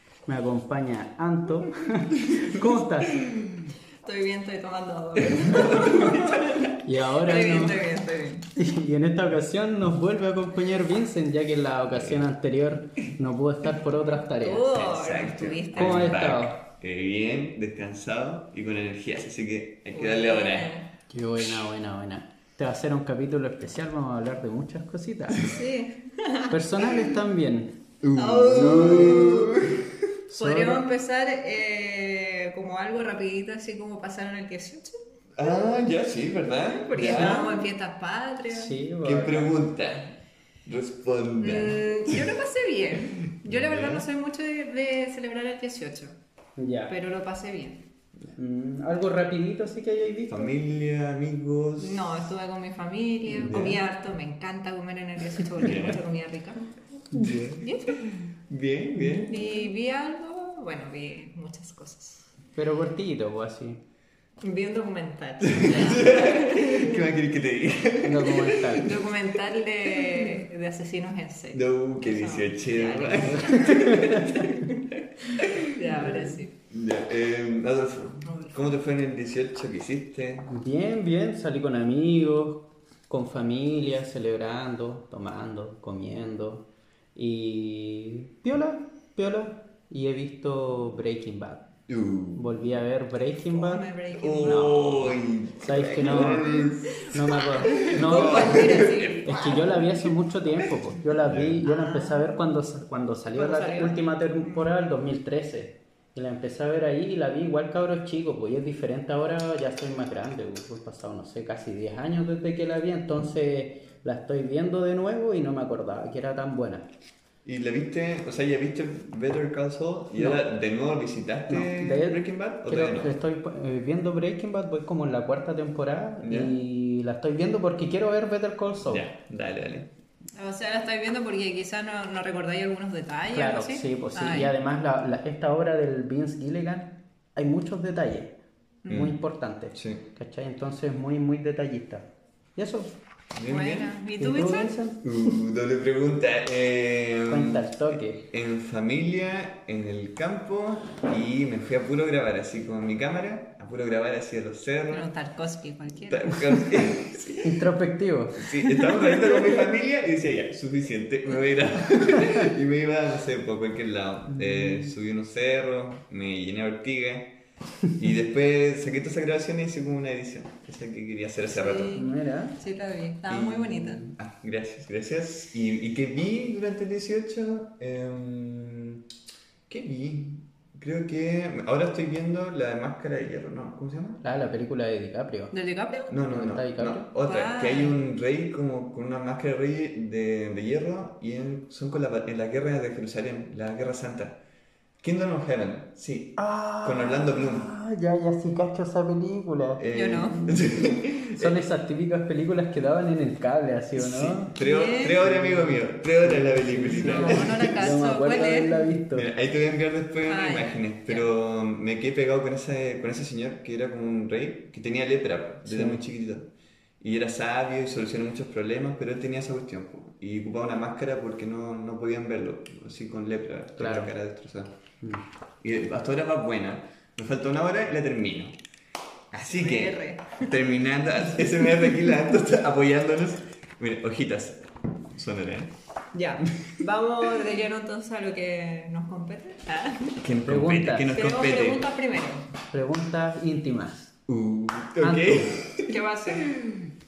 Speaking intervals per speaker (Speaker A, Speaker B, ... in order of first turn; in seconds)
Speaker A: 0.2-3.5, 6.8-7.8, 8.6-14.7, 15.7-16.6, 21.1-25.6, 26.5-27.8, 28.5-29.5, 30.3-30.9, 38.5-39.6, 46.6-47.0, 48.3-50.5, 53.3-53.8, 62.5-63.8, 68.0-68.9, 73.3-74.4, 75.9-76.4, 80.5-91.7, 92.3-93.8, 94.4-116.9, 120.2-120.4, 121.5-129.1, 133.3-138.4, 138.9-142.9, 144.2-145.3, 147.3-148.3, 157.4-158.4, 164.3-164.9, 171.9-172.6, 184.2-185.5, 186.2-187.1, 196.3-204.6, 205.2-209.3, 215.6-216.0, 223.8-224.1, 240.4-241.1, 242.7-244.2, 245.0-245.6
Speaker B: 4.0-8.5, 14.2-16.2, 19.9-20.9, 25.4-27.1, 28.1-29.5, 30.4-35.0, 36.7-38.7, 41.4-46.1, 46.9-47.8, 51.8-56.6, 57.6-58.0, 59.1-62.3, 64.4-67.0, 68.8-76.5, 78.2-78.7, 93.5-94.8, 96.0-97.1, 97.7-99.7, 101.6-102.3, 103.3-104.7, 130.3-134.5, 143.5-144.7, 154.9-156.7, 158.6-159.6, 171.5-174.0, 185.5-186.1, 187.2-187.9, 199.9-200.5, 204.6-205.2, 206.9-208.9, 210.2-211.3, 229.4-230.6, 236.1-240.2, 241.1-242.5, 245.9-246.5
Speaker C: 5.7-6.1, 11.9-12.2, 14.7-20.8, 21.4-21.7, 28.0-30.0, 35.4-37.6, 39.0-42.3, 43.3-44.1, 50.3-52.1, 53.4-53.8, 55.6-56.0, 57.1-59.5, 65.4-69.1, 71.5-74.7, 75.4-75.8, 76.7-80.5, 91.9-92.8, 94.2-99.8, 100.6-101.6, 117.4-123.2, 126.2-126.5, 128.8-129.9, 138.9-139.2, 139.7-140.0, 143.3-144.0, 145.0-155.1, 156.1-157.7, 158.3-167.3, 167.9-172.0, 173.3-179.1, 179.7-184.2, 186.1-194.4, 195.0-197.7, 199.8-201.6, 204.0-208.0, 209.1-224.7, 225.6-228.6, 229.3-235.7, 240.2-241.8, 244.3-246.8